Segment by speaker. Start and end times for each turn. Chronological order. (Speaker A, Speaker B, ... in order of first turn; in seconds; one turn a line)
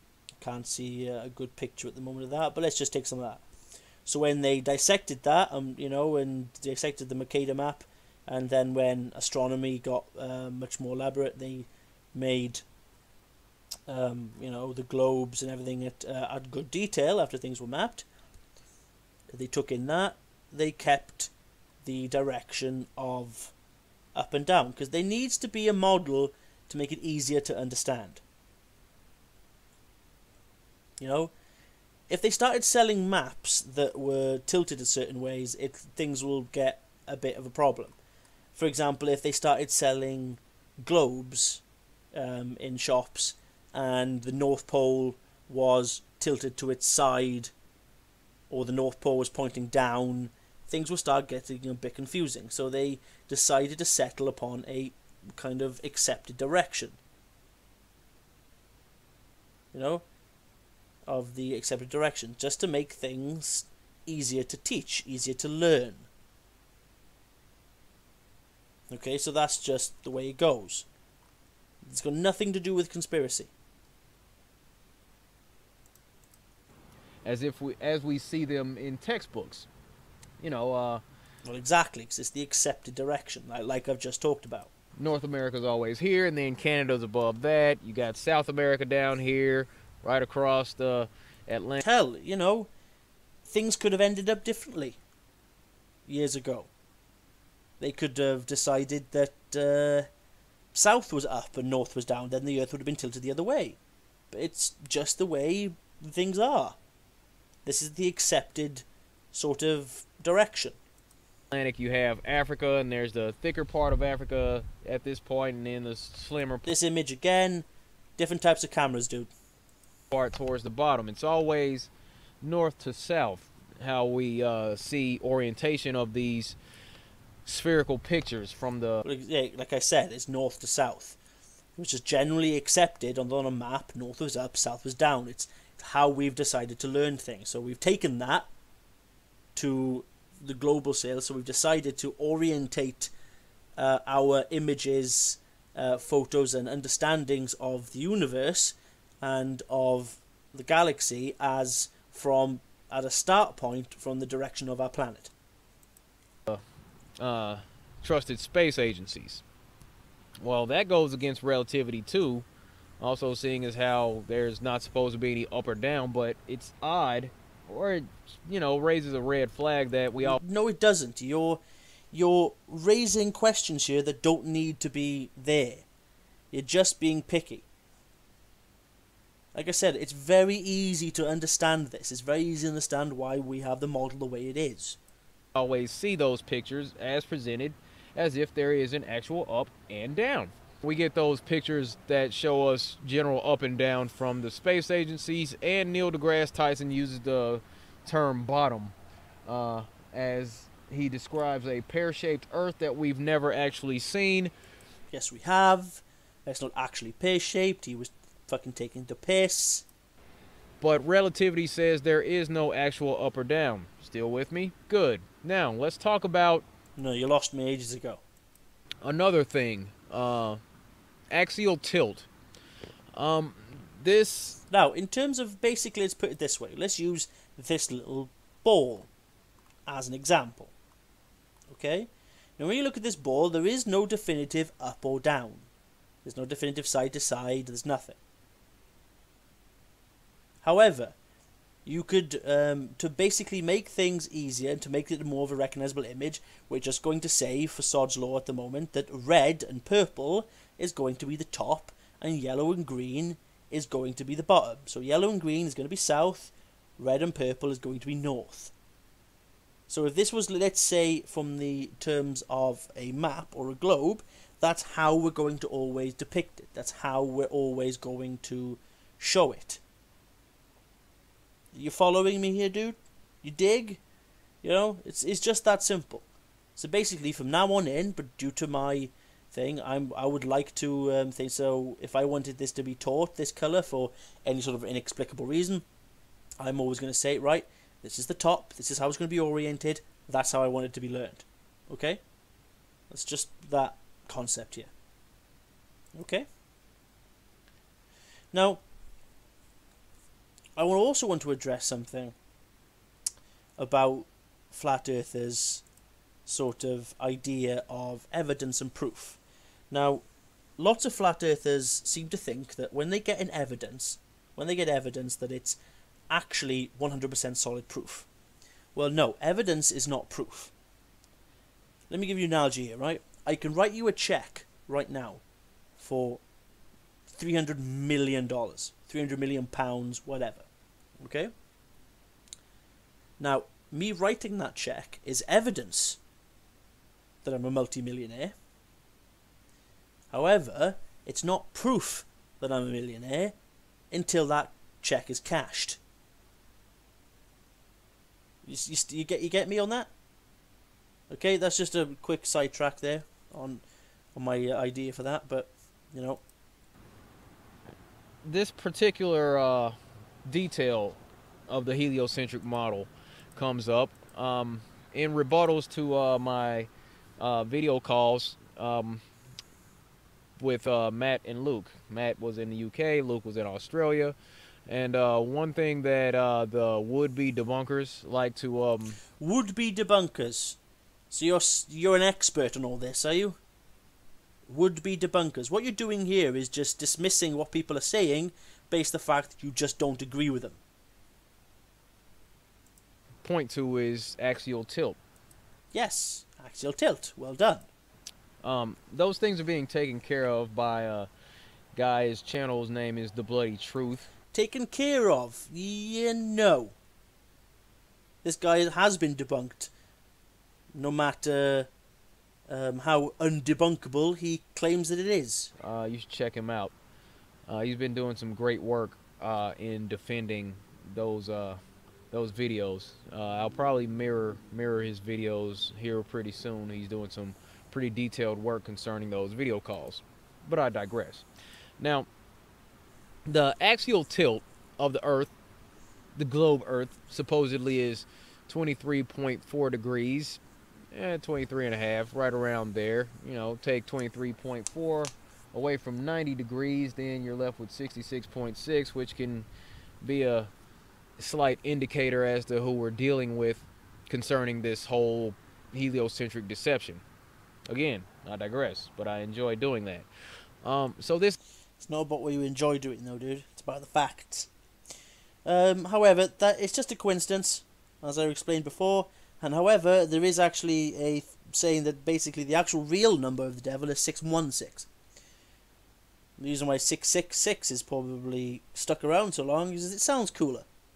Speaker A: 0.4-3.4
Speaker A: 4.1-12.6
Speaker A: 13.9-18.1
Speaker A: 19.3-21.3
Speaker A: 21.8-23.5
Speaker A: 24.1-28.2
Speaker A: 31.0-31.3
Speaker A: 32.1-38.0
Speaker A: 38.5-41.6
Speaker A: 42.1-47.5
Speaker A: 48.5-57.0
Speaker A: 59.7-60.0
Speaker A: 61.1-66.1
Speaker A: 68.9-70.9
Speaker A: 71.8-73.5
Speaker B: 77.2-79.7
Speaker B: 80.4-81.0
Speaker A: 81.5-84.7
Speaker B: 85.0-91.8
Speaker A: 91.8-92.7
Speaker A: 93.5-95.0
Speaker A: 96.1-96.7
Speaker A: 97.8-100.1
Speaker A: 100.7-103.8
Speaker A: 104.3-106.8
Speaker A: 107.7-110.8
Speaker B: 111.5-116.7
Speaker A: 116.7-119.3
Speaker B: 120.1-121.9
Speaker B: 122.4-126.6
Speaker B: 127.5-129.0
Speaker A: 129.1-131.2
Speaker A: 131.8-138.5
Speaker A: 139.6-143.1
Speaker A: 143.8-155.3
Speaker B: 157.2-159.4
Speaker B: 160.4-162.5
Speaker B: 163.0-170.4
Speaker A: 170.2-171.6
Speaker A: 172.1-175.9
Speaker A: 176.5-177.7
Speaker A: 179.5-185.0
Speaker B: 185.6-204.5
Speaker A: 205.1-209.9
Speaker B: 210.8-216.7
Speaker A: 217.0-218.2
Speaker B: 219.0-220.6
Speaker B: 221.3-222.3
Speaker B: 223.1-224.6
Speaker A: 224.7-229.1
Speaker A: 229.9-230.7
Speaker A: 231.7-235.7
Speaker A: 236.2-238.2
Speaker A: 240.6-241.2
Speaker A: 241.9-258.7
Speaker A: 259.9-269.8
Speaker A: 271.7-274.0
Speaker A: 274.6-285.9
Speaker A: 286.6-292.2
Speaker A: 293.1-294.9
Speaker A: 296.1-296.5
Speaker A: 298.5-298.8
Speaker A: 300.8-302.4
Speaker A: 303.8-305.8
Speaker A: 306.5-309.4
Speaker A: 309.9-310.2
Speaker A: 310.8-315.8
Speaker A: 316.3-318.3
Speaker A: 318.9-320.7
Speaker A: 322.1-325.4
Speaker A: 326.0-326.4
Speaker A: 327.3-330.7
Speaker A: 331.2-331.5
Speaker A: 333.4-336.2
Speaker A: 337.4-338.6
Speaker A: 340.3-343.6
Speaker A: 344.1-346.0
Speaker A: 348.6-350.1
Speaker A: 351.3-353.8
Speaker A: 354.4-356.4
Speaker B: 358.4-369.2
Speaker B: 370.6-374.4
Speaker B: 374.9-379.2
Speaker A: 379.4-380.8
Speaker A: 381.3-383.6
Speaker A: 384.7-390.8
Speaker B: 393.4-395.2
Speaker A: 395.9-397.9
Speaker B: 398.6-401.3
Speaker B: 401.9-404.3
Speaker A: 404.5-406.9
Speaker A: 408.4-409.9
Speaker A: 410.9-411.9
Speaker A: 412.7-415.7
Speaker B: 415.8-416.9
Speaker B: 417.7-421.8
Speaker B: 422.3-431.4
Speaker B: 432.0-432.3
Speaker B: 433.5-435.5
Speaker B: 436.3-440.6
Speaker B: 441.1-449.7
Speaker B: 450.2-450.7
Speaker B: 451.4-457.2
Speaker B: 457.9-460.3
Speaker B: 460.8-461.6
Speaker A: 462.0-464.7
Speaker A: 465.6-475.1
Speaker A: 476.6-480.9